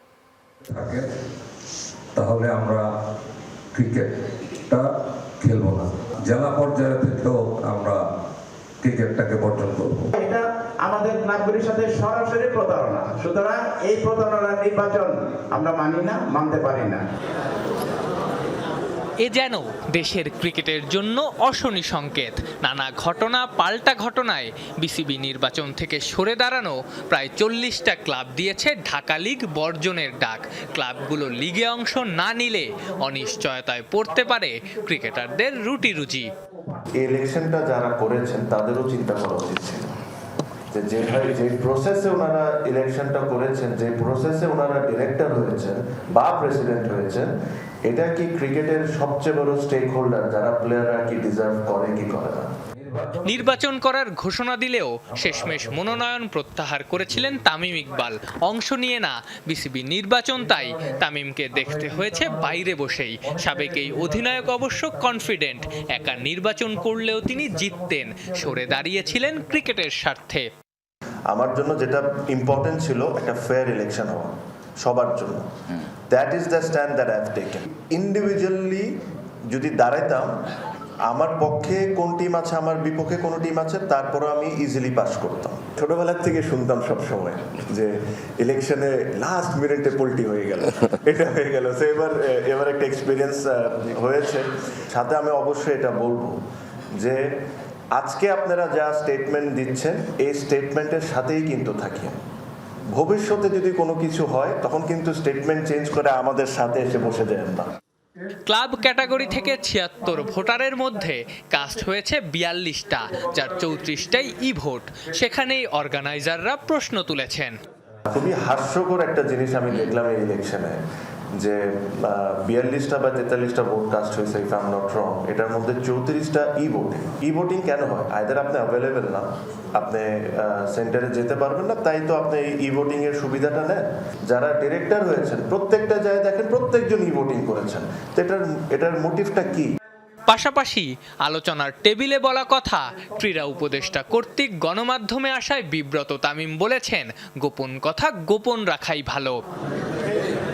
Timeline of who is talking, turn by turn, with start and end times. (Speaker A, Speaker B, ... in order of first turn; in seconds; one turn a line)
Speaker A: 0.7-1.1
Speaker A: 2.1-2.8
Speaker A: 3.7-4.1
Speaker A: 5.4-8.0
Speaker A: 8.8-10.1
Speaker B: 10.2-17.0
Speaker C: 19.2-36.3
Speaker D: 37.0-39.9
Speaker D: 40.7-47.3
Speaker D: 47.8-52.5
Speaker A: 52.8-53.2
Speaker C: 53.2-70.5
Speaker D: 71.3-75.4
Speaker D: 76.1-78.8
Speaker D: 79.5-80.3
Speaker D: 81.1-96.4
Speaker D: 97.9-102.2
Speaker D: 102.9-107.7
Speaker C: 108.5-117.5
Speaker D: 118.1-120.8
Speaker D: 121.3-139.7
Speaker C: 140.3-149.4